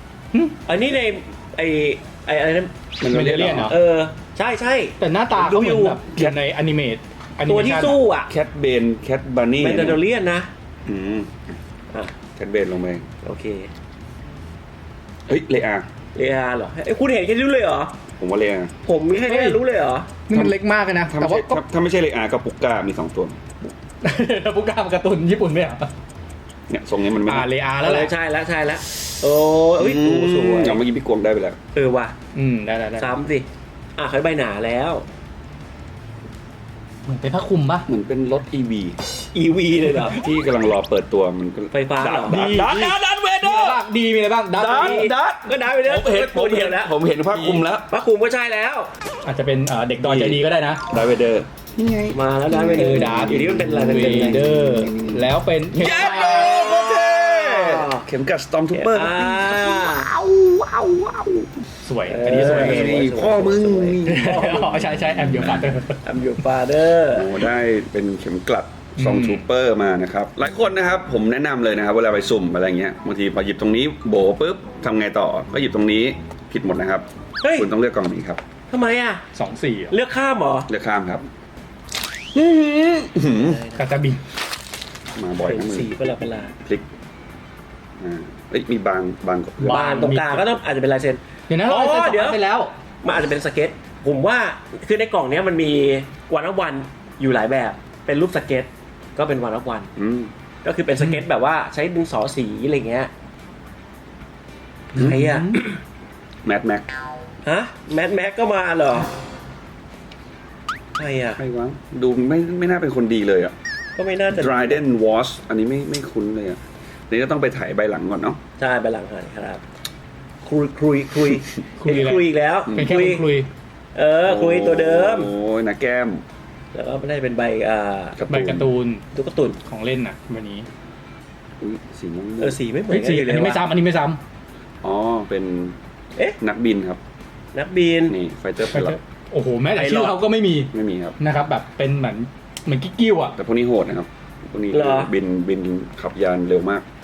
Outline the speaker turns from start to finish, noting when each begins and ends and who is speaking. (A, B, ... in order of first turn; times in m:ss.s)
0:00.7-0:02.7 A
0:03.0-0:03.8 B
0:03.1-0:03.8 C
0:03.7-0:06.0 A
0:05.0-0:08.0 C
0:06.1-0:06.4 B
0:07.5-0:08.3 A
0:08.3-0:10.0 B
0:09.6-0:10.5 A
0:10.9-0:11.5 B
0:12.4-0:13.0 B
0:13.2-0:13.7 A
0:15.3-0:15.9 B
0:16.2-0:17.9 A
0:18.2-0:18.7 B
0:18.8-0:20.2 A
0:19.3-0:19.6 C
0:20.3-0:21.6 C
0:21.1-0:23.4 B
0:24.0-0:25.9 C
0:26.7-0:27.5 B
0:27.2-0:28.1 C
0:27.8-0:30.8 A
0:29.8-0:31.6 B
0:31.7-0:32.1 A
0:32.3-0:33.1 C
0:33.0-0:33.5 A
0:34.0-0:35.0 A
0:37.0-0:37.9 C
0:37.9-0:39.0 B
0:39.3-0:40.2 A
0:40.1-0:43.8 B
0:41.7-0:42.4 A
0:42.3-0:45.1 C
0:44.6-0:47.9 B
0:44.7-0:46.9 A
0:47.3-0:47.6 C
0:47.9-0:48.9 A
0:49.2-0:50.8 C
0:50.0-1:01.5 B
0:52.1-0:54.5 A
0:52.7-0:56.6 C
0:56.2-0:58.0 A
0:58.7-1:00.1 A
1:01.8-1:03.1 C
1:02.1-1:04.7 A
1:02.3-1:05.8 B
1:04.0-1:06.0 C
1:06.0-1:07.4 A
1:07.1-1:18.4 B
1:09.0-1:09.4 C
1:17.4-1:17.7 A
1:18.7-1:19.2 A
1:19.3-1:20.0 C
1:19.9-1:20.7 A
1:20.7-1:21.2 B
1:22.3-1:23.6 B
1:23.4-1:24.0 A
1:23.8-1:24.2 C
1:25.2-1:25.9 B
1:25.4-1:26.5 A
1:28.0-1:29.9 B
1:29.6-1:30.4 C
1:29.7-1:32.4 A
1:31.5-1:32.7 C
1:33.0-1:39.9 A
1:40.0-1:40.3 B
1:40.6-1:43.1 A
1:44.9-1:45.6 A
1:45.0-1:45.8 C
1:46.4-1:46.8 B
1:47.4-1:49.1 A
1:51.0-1:51.4 A
1:51.4-1:53.5 B
1:54.0-1:54.8 A
1:54.3-1:58.4 B
1:58.6-1:59.6 A
2:00.4-2:03.3 A
2:01.8-2:03.5 C
2:04.0-2:05.3 A
2:04.2-2:06.2 B
2:06.7-2:08.2 A
2:08.2-2:08.7 B
2:08.3-2:09.0 C
2:09.2-2:09.6 A
2:09.6-2:10.7 C
2:11.6-2:12.6 B
2:12.4-2:13.7 A
2:12.9-2:14.2 C
2:14.8-2:15.8 B
2:16.4-2:17.0 B
2:17.6-2:18.2 A
2:18.1-2:19.0 B
2:18.7-2:23.4 C
2:19.8-2:20.2 A
2:20.7-2:21.2 B
2:23.4-2:26.8 B
2:24.7-2:25.1 A